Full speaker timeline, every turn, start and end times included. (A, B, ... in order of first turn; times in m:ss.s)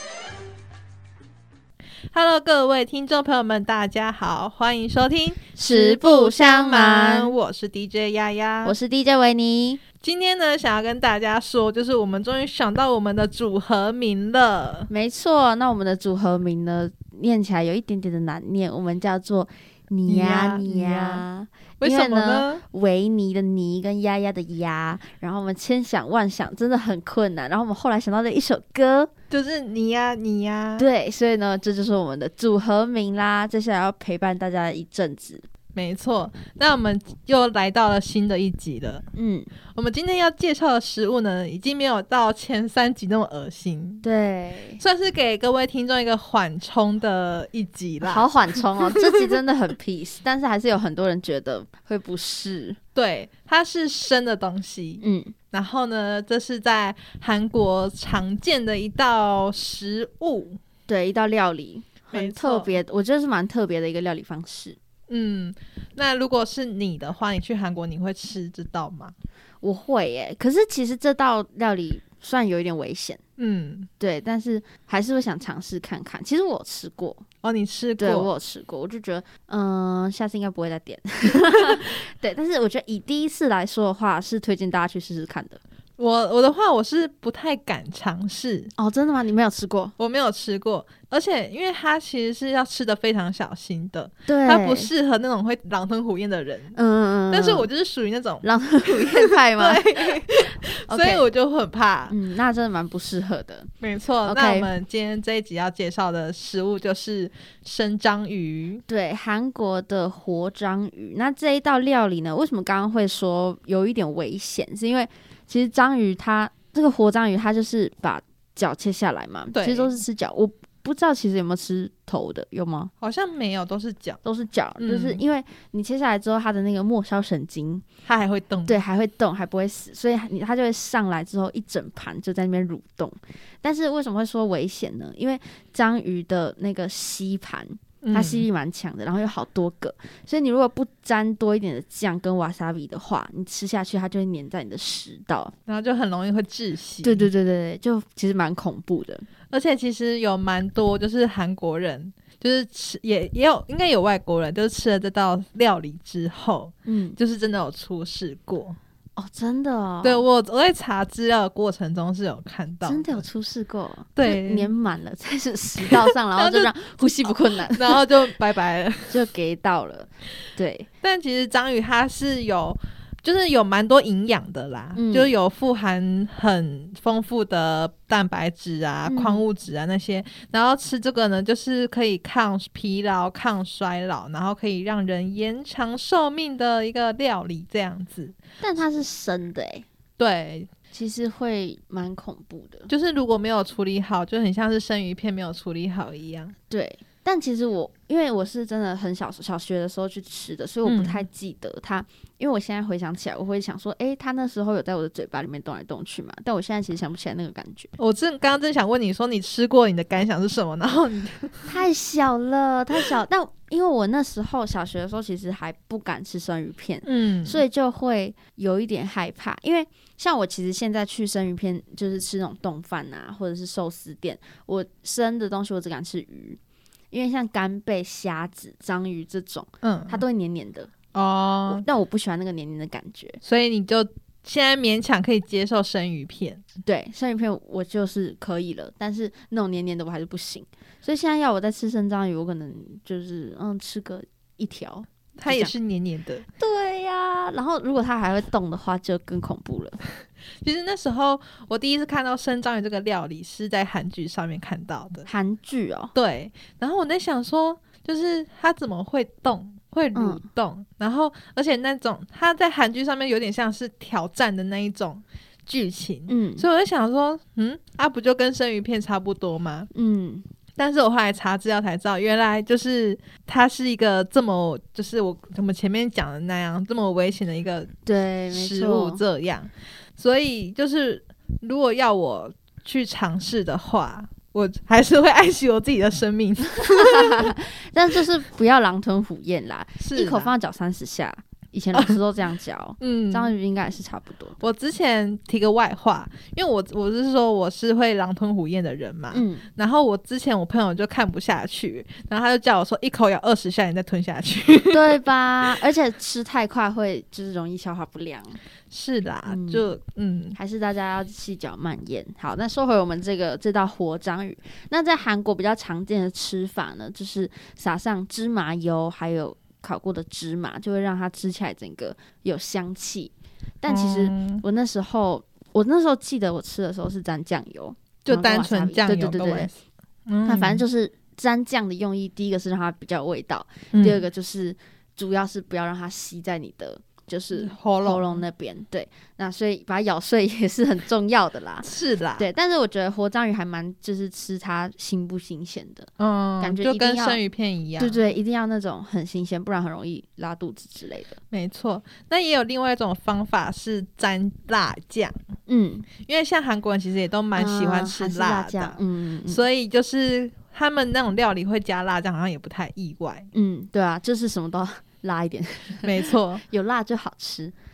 0:02.1-0:08.8 A
0:05.6-0:07.4 B
0:08.6-0:09.8 B
0:10.0-0:14.9 A
0:14.9-0:29.1 B
0:20.1-0:21.2 A
0:21.8-0:22.6 A
0:29.3-0:30.9 A
0:30.8-0:35.4 B
0:35.8-0:39.0 A
0:39.2-0:39.5 B
0:39.7-0:44.0 A
0:44.0-0:44.8 B
0:44.8-0:49.0 A
0:48.0-0:52.8 B
0:53.0-1:00.6 A
0:55.0-0:55.3 B
1:00.9-1:04.8 B
1:02.1-1:02.8 A
1:05.1-1:09.1 A
1:09.6-1:13.2 B
1:13.4-1:13.9 A
1:14.0-1:17.2 B
1:17.4-1:18.3 A
1:18.0-1:25.6 B
1:26.0-1:28.7 A
1:28.8-1:29.9 B
1:30.0-1:36.8 A
1:34.3-1:34.9 B
1:36.7-1:37.7 B
1:37.3-1:42.2 A
1:38.4-1:41.2 B
1:42.1-1:43.7 B
1:43.8-1:48.8 A
1:44.2-1:44.7 B
1:48.9-2:02.9 B
1:59.5-2:00.0 A
2:03.0-2:04.2 A
2:04.2-2:07.8 B
2:04.8-2:05.2 A
2:08.0-2:08.8 A
2:08.7-2:25.5 B
2:18.0-2:18.5 A
2:25.7-2:27.3 A
2:27.0-2:29.3 B
2:29.5-2:38.8 A
2:36.8-2:37.2 B
2:39.2-2:40.3 B
2:40.0-2:43.2 A
2:42.8-2:48.1 B
2:44.2-2:44.7 A
2:45.8-2:46.7 A
2:47.2-2:49.2 A
2:49.1-2:50.9 B
2:51.0-3:08.4 A
2:55.0-2:55.3 B
2:59.1-2:59.5 B
3:08.6-3:09.9 B
3:10.2-3:10.7 A
3:10.9-3:12.9 B
3:12.9-3:16.6 A
3:16.7-3:27.9 B
3:20.8-3:21.2 A
3:28.0-3:31.8 A
3:31.7-3:46.6 B
3:37.0-3:37.6 A
3:47.1-3:50.9 B
3:49.8-3:50.2 A
3:51.1-3:51.8 A
3:51.7-3:53.4 B
3:53.4-3:56.6 A
3:56.8-4:05.7 B
4:05.4-4:06.5 A
4:06.6-4:10.0 B
4:10.6-4:15.3 A
4:15.3-4:16.1 B
4:16.2-4:29.9 A
4:20.2-4:20.4 B
4:26.3-4:26.7 B
4:29.9-4:30.5 B
4:30.8-4:37.9 A
4:38.1-4:39.2 B
4:38.5-4:47.5 A
4:46.8-4:54.6 B
4:50.0-4:50.5 A
4:51.9-4:52.2 A
4:53.0-4:53.5 A
4:54.6-5:05.7 A
4:59.3-4:59.7 B
5:04.9-5:08.6 B
5:08.9-5:10.6 A
5:09.5-5:09.9 B
5:10.6-5:29.7 B
5:23.9-5:24.6 A
5:28.2-5:29.7 A
5:30.3-5:30.8 A
5:30.4-5:47.4 B
5:33.9-5:34.3 A
5:37.5-5:38.4 A
5:41.8-5:42.5 A
5:46.2-5:48.2 A
5:48.0-5:51.4 B
5:51.5-5:55.4 A
5:55.7-5:56.1 B
5:56.2-6:03.5 A
5:57.6-5:59.6 B
6:03.5-6:07.7 B
6:06.0-6:06.6 A